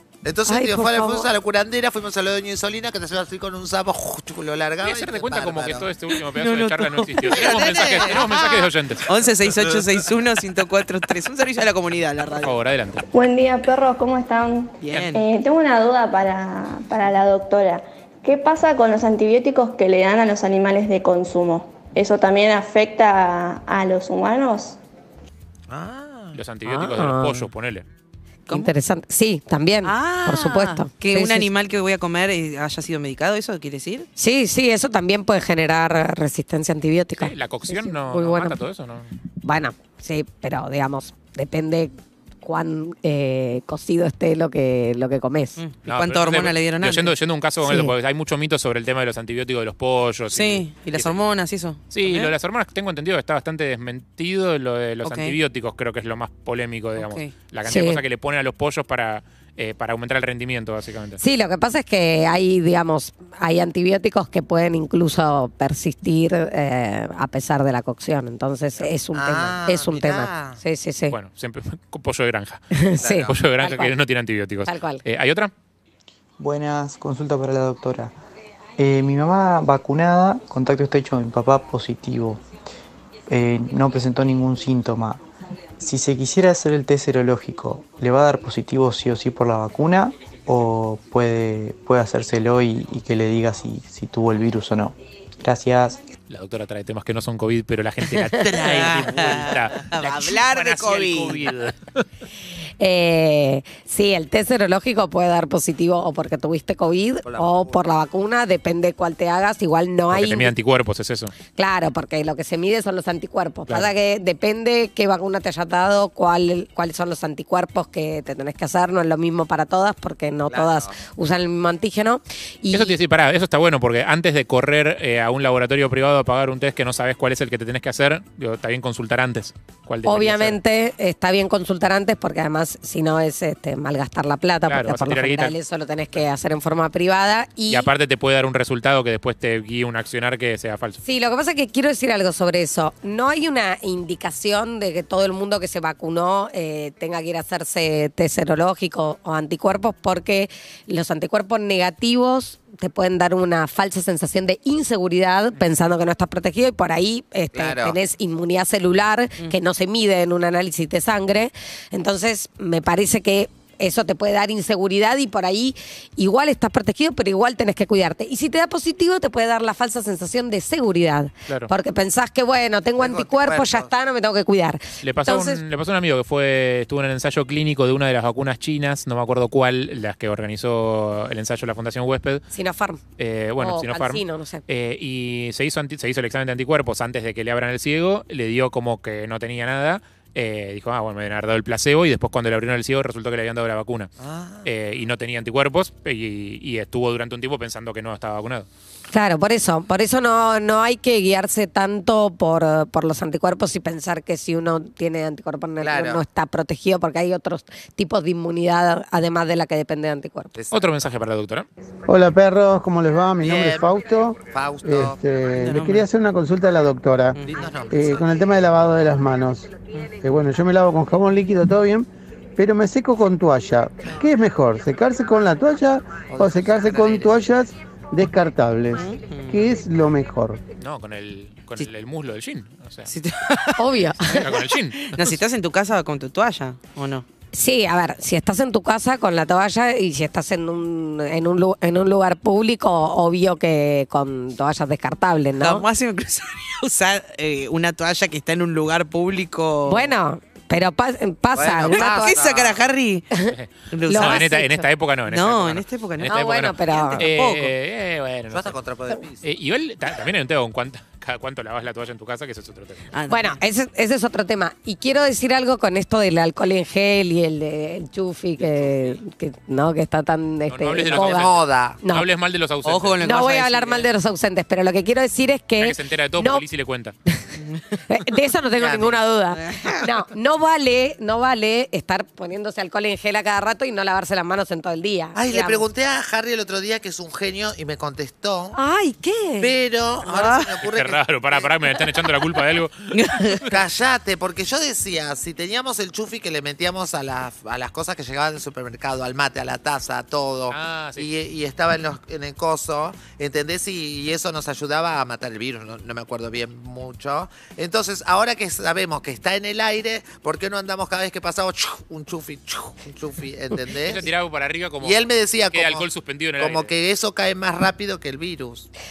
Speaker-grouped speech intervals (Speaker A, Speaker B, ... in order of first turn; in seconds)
Speaker A: 0.2-5.9, 7.3-8.7, 25.7-26.4, 69.1-70.6, 73.0-73.3, 107.2-107.8, 120.5-121.0, 157.5-158.0, 173.0-173.9, 194.2-194.7, 205.8-206.2, 210.6-211.1, 213.4-215.2, 217.4-218.4, 226.3-227.4, 251.5-252.8, 258.5-259.4, 271.1-272.0, 278.8-279.2, 285.3-288.8, 289.6-291.7, 293.7-314.2, 315.0-316.1, 316.6-318.9
Speaker B: 0.5-1.3, 26.6-27.5, 28.5-31.5, 34.2-38.5, 39.4-45.6, 57.6-58.0, 61.2-71.1, 72.7-73.9, 74.6-75.0, 102.8-110.5, 111.5-122.9, 130.1-137.9, 141.0-175.6, 182.5-183.0, 183.6-184.6, 199.1-210.5, 233.8-234.4, 237.5-245.8, 249.8-252.4, 254.1-254.7, 256.3-257.2, 263.3-271.5, 273.2-276.6, 278.1-285.8, 288.7-289.7
Speaker C: 4.8-9.2, 12.4-13.0, 26.3-27.9, 37.2-39.1, 45.9-51.2, 51.9-61.2, 71.1-75.5, 96.3-102.0, 110.1-111.3, 122.7-130.6, 134.7-135.5, 137.7-141.0, 175.0-182.4, 183.2-194.1, 194.6-198.7, 210.7-211.7, 230.8-233.1, 234.3-235.4, 253.5-258.8, 259.4-263.1, 268.6-269.1, 270.7-273.2, 275.8-277.1, 290.8-293.7, 300.7-301.3, 314.0-316.9
Speaker D: 6.3-8.0, 9.1-12.5, 14.8-15.2, 29.8-34.1, 45.6-47.1, 50.3-52.3, 55.0-55.3, 57.0-57.3, 98.4-101.4, 215.6-216.0, 217.3-217.7, 228.9-229.7, 233.1-237.2, 245.6-250.1, 251.9-253.3, 253.9-254.7, 255.3-256.3, 256.8-257.7, 263.1-263.6, 272.8-274.1, 277.6-278.0, 279.5-280.1, 290.2-290.7, 293.1-293.7
Speaker E: 13.1-24.8
Speaker F: 76.4-78.1, 78.8-82.4, 83.3-85.2, 85.8-96.0
Speaker G: 212.1-217.4, 217.9-230.6